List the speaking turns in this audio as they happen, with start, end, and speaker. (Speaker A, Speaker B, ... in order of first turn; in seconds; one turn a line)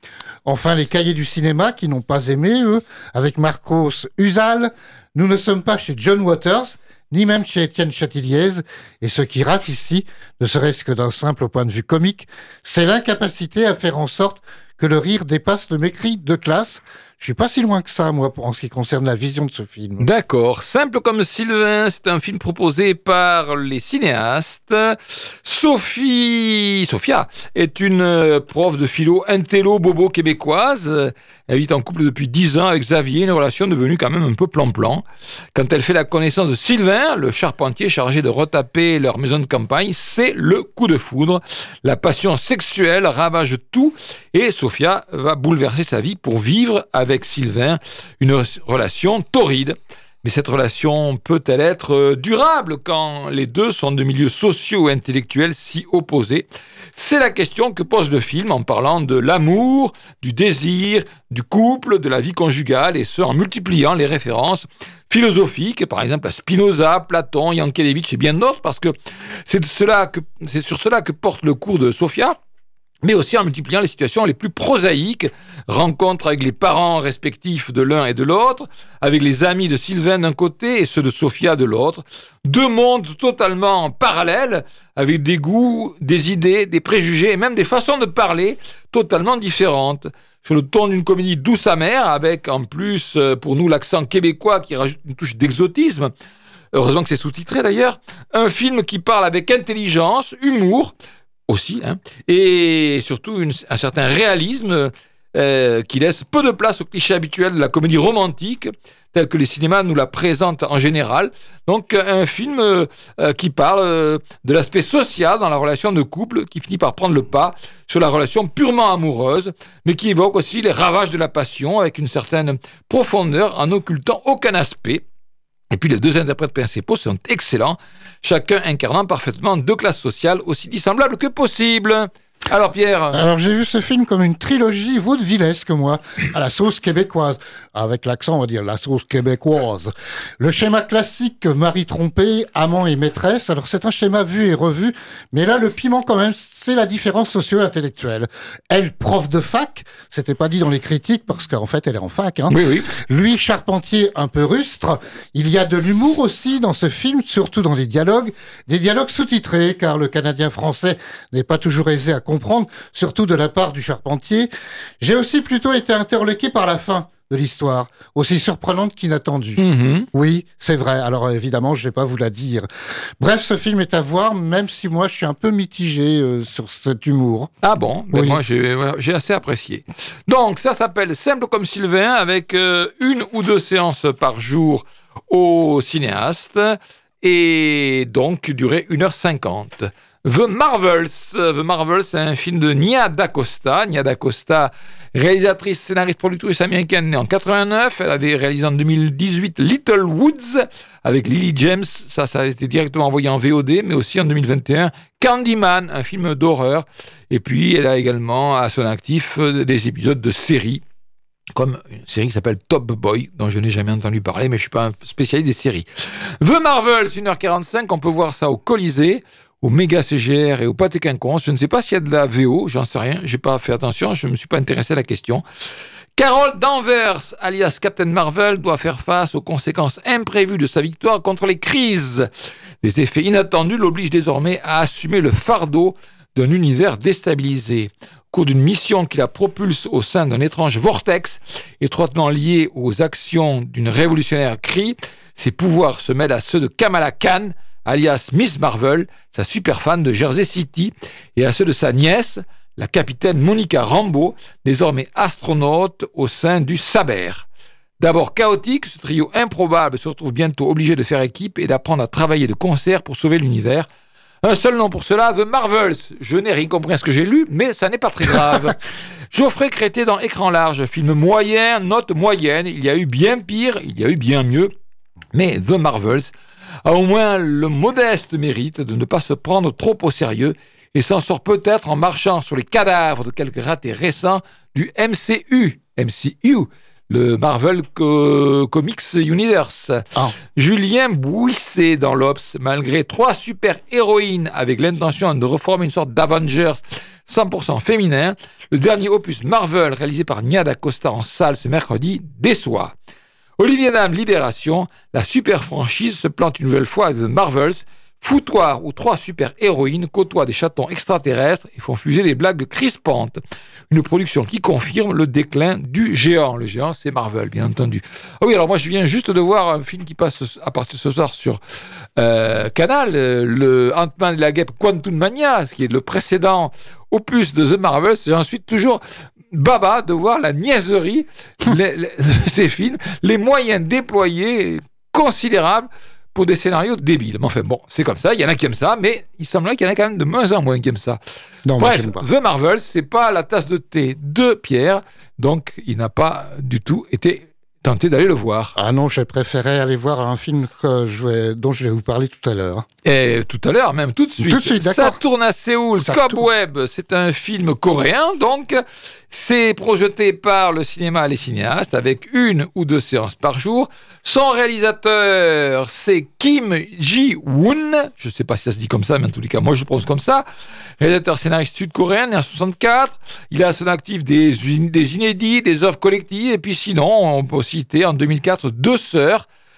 Speaker A: 0.4-20.1
Speaker B: 20.0-68.9
Speaker B: 69.5-72.4
Speaker B: 73.0-96.1
Speaker B: 96.7-100.9
Speaker B: 101.5-125.0
Speaker B: 125.7-133.2
Speaker A: 133.1-164.5
Speaker B: 152.5-152.9
Speaker A: 165.0-172.7
Speaker B: 169.6-170.1
Speaker A: 173.2-177.5
Speaker B: 177.6-210.8
Speaker A: 178.1-178.4
Speaker B: 211.5-225.4
Speaker B: 226.2-232.3
Speaker B: 232.8-257.4
Speaker B: 258.0-263.9
Speaker B: 264.4-274.7
Speaker B: 275.3-276.3
Speaker B: 276.8-302.9
Speaker B: 303.6-321.6
Speaker B: 322.2-341.2
Speaker A: 341.6-342.2
Speaker B: 341.8-348.7
Speaker A: 348.8-352.9
Speaker B: 353.0-370.4
Speaker A: 354.4-355.2
Speaker A: 356.0-356.4
Speaker B: 371.0-379.4